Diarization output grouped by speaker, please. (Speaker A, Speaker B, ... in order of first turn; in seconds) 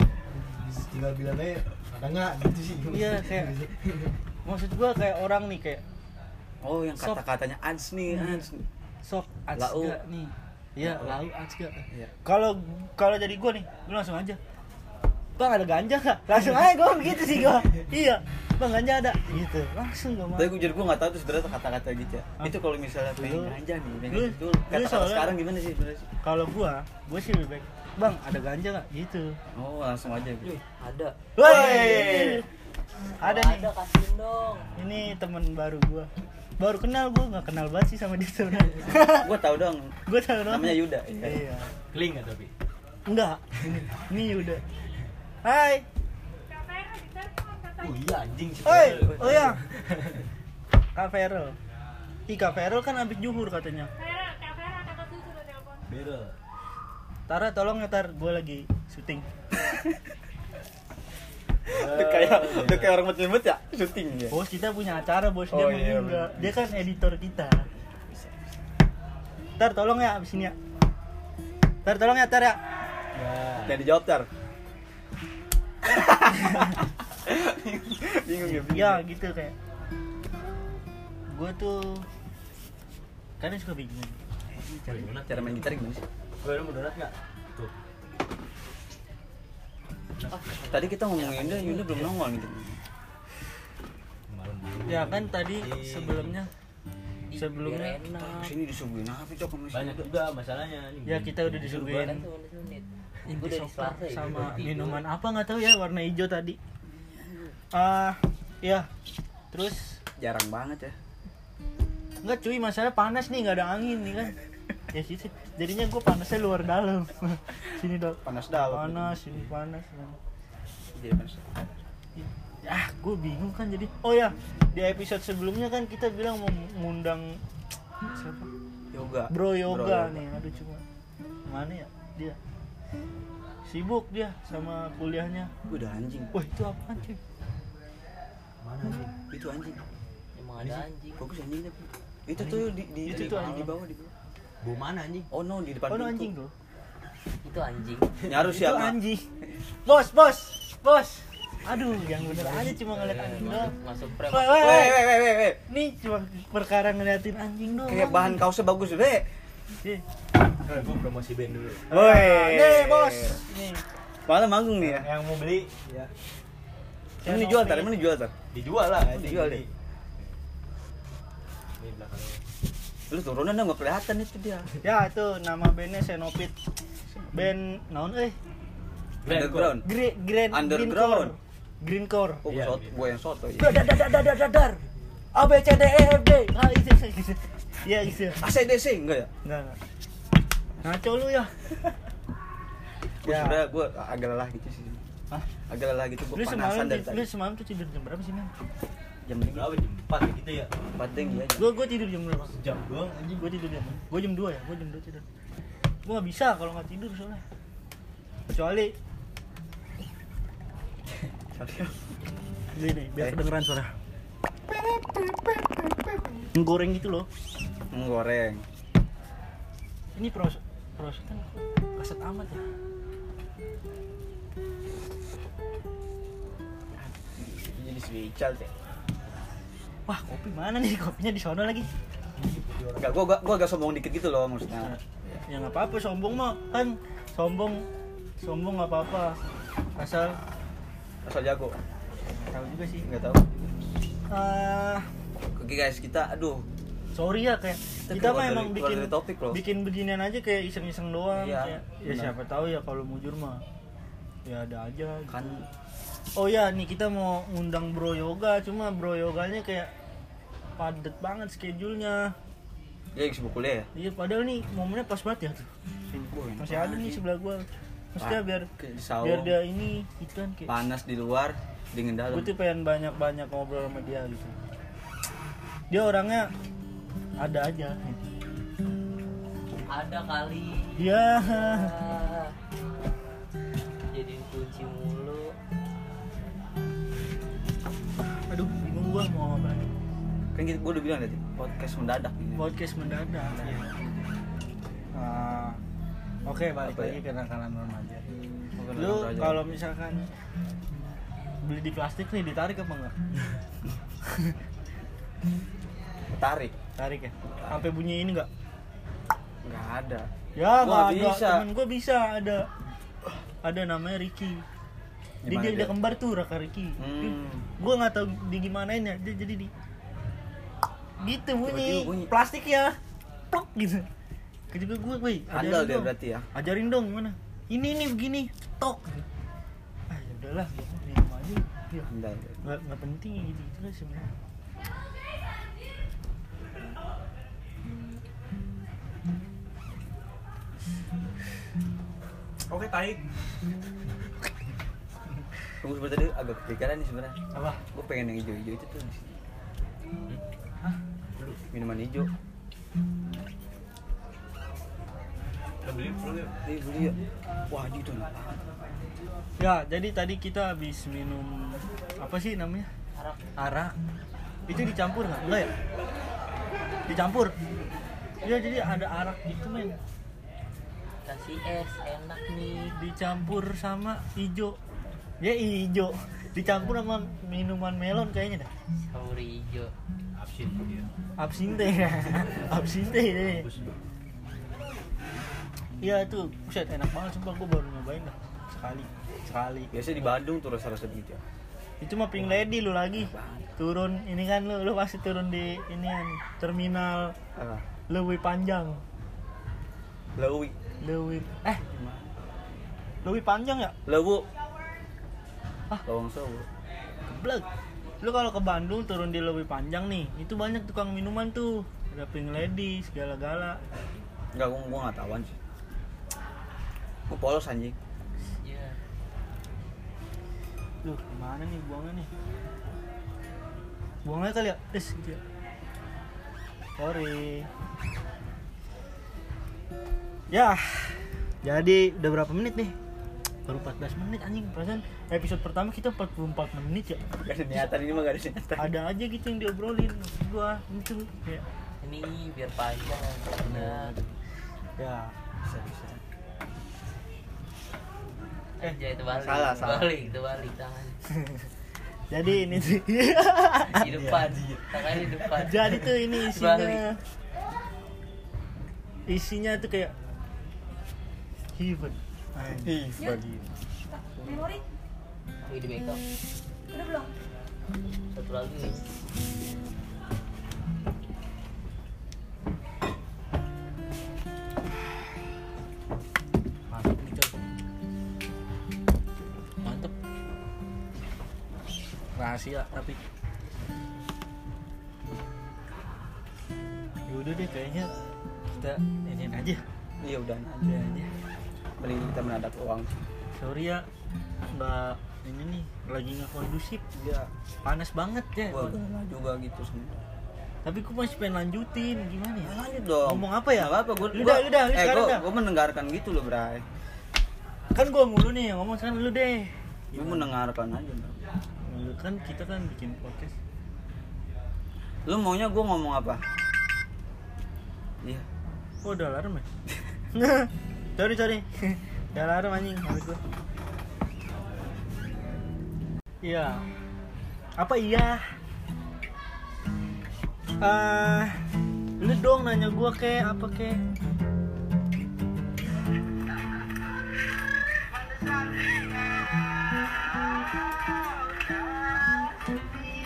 Speaker A: 0.3-4.1, 31.4-32.3, 41.9-42.5, 47.8-50.2, 55.9-56.4, 61.7-63.0, 73.1-73.8, 84.8-85.8, 86.4-87.7, 94.3-96.3, 99.7-102.1, 138.6-139.1, 140.6-140.8, 142.3-142.7, 144.6-145.3, 151.9-153.2, 160.6-161.9, 164.8-166.1, 168.5-169.7, 171.8-172.4, 179.2-179.8, 182.5-182.9, 199.5-200.7, 202.5-203.5, 232.3-233.1, 351.3-351.6, 355.8-356.5, 380.3-381.1, 382.4-384.0, 453.9-456.0
Speaker B: 2.9-3.6, 4.4-5.8, 8.1-8.4, 9.0-14.4, 15.4-20.5, 23.2-23.5, 24.1-25.3, 26.2-29.4, 31.3-32.4, 33.2-33.7, 34.8-39.3, 40.0-41.7, 43.1-44.6, 45.4-45.8, 48.6-49.6, 50.9-51.5, 52.3-53.9, 57.3-59.3, 64.3-67.7, 69.6-70.5, 71.8-72.6, 78.6-79.5, 81.3-82.1, 83.4-84.2, 94.9-96.5, 97.3-98.1, 101.0-102.2, 103.2-106.6, 107.7-108.9, 109.5-110.0, 112.2-114.3, 114.9-120.2, 122.2-127.4, 128.2-128.5, 129.3-130.8, 131.5-132.4, 133.7-135.5, 136.3-137.2, 143.1-143.8, 145.9-146.5, 148.4-149.2, 149.8-153.7, 154.3-155.0, 155.7-158.4, 161.9-163.8, 167.2-167.9, 174.8-176.5, 177.3-178.3, 179.8-182.4, 183.6-184.8, 185.3-188.4, 189.4-189.8, 190.8-191.9, 193.2-193.6, 196.3-198.5, 201.6-202.6, 203.4-205.2, 206.0-207.4, 208.5-208.9, 212.7-213.9, 216.5-217.3, 220.2-222.6, 230.1-231.9, 234.8-237.8, 238.4-239.4, 240.0-240.4, 242.4-243.1, 244.3-245.1, 247.1-253.6, 254.4-255.6, 256.4-259.9, 260.8-262.3, 263.9-265.7, 266.6-270.7, 272.3-274.6, 275.9-276.5, 277.4-278.2, 281.0-281.9, 288.5-289.9, 292.6-293.8, 295.1-295.8, 296.4-298.3, 298.9-300.2, 301.6-303.1, 304.2-304.6, 307.0-308.5, 310.6-312.7, 313.6-314.6, 315.5-319.7, 321.2-323.0, 323.5-324.1, 324.7-329.2, 330.1-332.1, 332.6-334.3, 342.7-343.2, 347.5-347.8, 359.6-362.9, 363.6-363.9, 364.7-365.7, 367.1-367.5, 368.4-369.9, 372.9-374.8, 375.4-378.7, 381.4-383.7, 386.0-390.2, 392.0-397.3, 398.1-399.0, 401.0-401.8, 403.2-403.9, 407.2-407.6, 408.2-413.8, 421.0-422.3, 424.2-425.4, 427.0-427.7, 430.5-432.9, 433.6-437.2, 438.8-441.6, 443.6-444.3, 445.0-445.3, 452.3-454.0, 455.6-457.2, 459.3-460.1, 461.8-462.9, 476.9-477.6, 479.8-480.1, 482.4-483.2, 487.3-488.1, 488.7-489.8, 490.8-491.3, 493.6-494.0, 494.7-497.0, 497.9-499.3, 500.8-505.4, 507.9-510.5, 511.9-513.5, 519.0-519.6, 520.3-523.4, 526.4-526.8, 527.8-528.5, 530.8-531.7, 532.2-534.0
Speaker C: 6.6-8.7, 9.6-10.0, 10.9-11.1, 20.3-26.1, 29.5-30.6, 31.4-32.4, 38.9-41.4, 48.7-49.5, 61.7-64.4, 65.5-66.7, 67.9-68.3, 73.6-74.3, 75.8-79.0, 84.5-86.0, 90.7-92.8, 98.1-100.1, 106.9-107.5, 110.2-111.0, 118.2-119.3, 120.9-121.6, 128.9-130.2, 135.7-136.3, 139.3-139.8, 141.2-144.1, 145.3-146.3, 148.2-149.0, 154.6-155.6, 157.9-159.3, 161.9-163.4, 164.2-165.1, 167.2-168.3, 169.0-169.6, 173.1-174.7, 179.2-179.9, 180.5-181.3, 182.4-183.8, 188.3-189.3, 193.2-195.0, 195.7-197.2, 199.2-199.7, 200.9-201.7, 211.5-212.0, 214.7-215.8, 217.9-218.6, 227.0-228.7, 233.0-235.4, 241.2-241.8, 243.0-243.5, 245.5-246.6, 248.1-249.6, 251.3-252.3, 255.3-255.7, 263.1-263.9, 266.1-267.2, 268.2-269.5, 270.7-272.5, 290.5-292.7, 293.5-293.9, 296.8-297.2, 298.8-299.8, 306.4-306.7, 309.6-311.6, 315.4-315.9, 317.0-317.7, 321.6-322.3, 325.5-326.5, 332.1-332.6, 345.8-347.4, 347.9-349.4, 351.7-352.3, 356.6-357.2, 357.7-358.6, 389.9-391.4, 393.1-393.7, 397.5-397.9, 400.4-400.8, 401.9-402.3, 404.1-404.4, 406.0-406.7, 414.5-415.6, 417.3-417.9, 437.4-438.9, 445.6-446.2, 449.3-450.1, 462.7-463.6, 464.4-464.6, 490.2-491.0, 492.0-493.3, 497.1-497.5, 498.7-500.2, 502.6-506.8, 510.1-511.4, 515.3-516.4
Speaker D: 30.4-32.3, 33.2-34.8, 90.3-92.1, 97.3-98.5, 101.7-102.8, 103.4-105.0, 140.3-141.2, 147.4-148.1, 152.9-154.9, 279.9-282.5, 284.1-285.5, 363.1-363.4, 371.2-372.9, 379.0-379.9, 418.6-419.0, 442.0-444.1, 448.8-451.2, 453.9-457.0, 465.6-466.2, 468.3-469.0
Speaker E: 46.5-48.1, 54.0-55.9, 463.2-463.4, 464.1-464.8, 466.9-467.3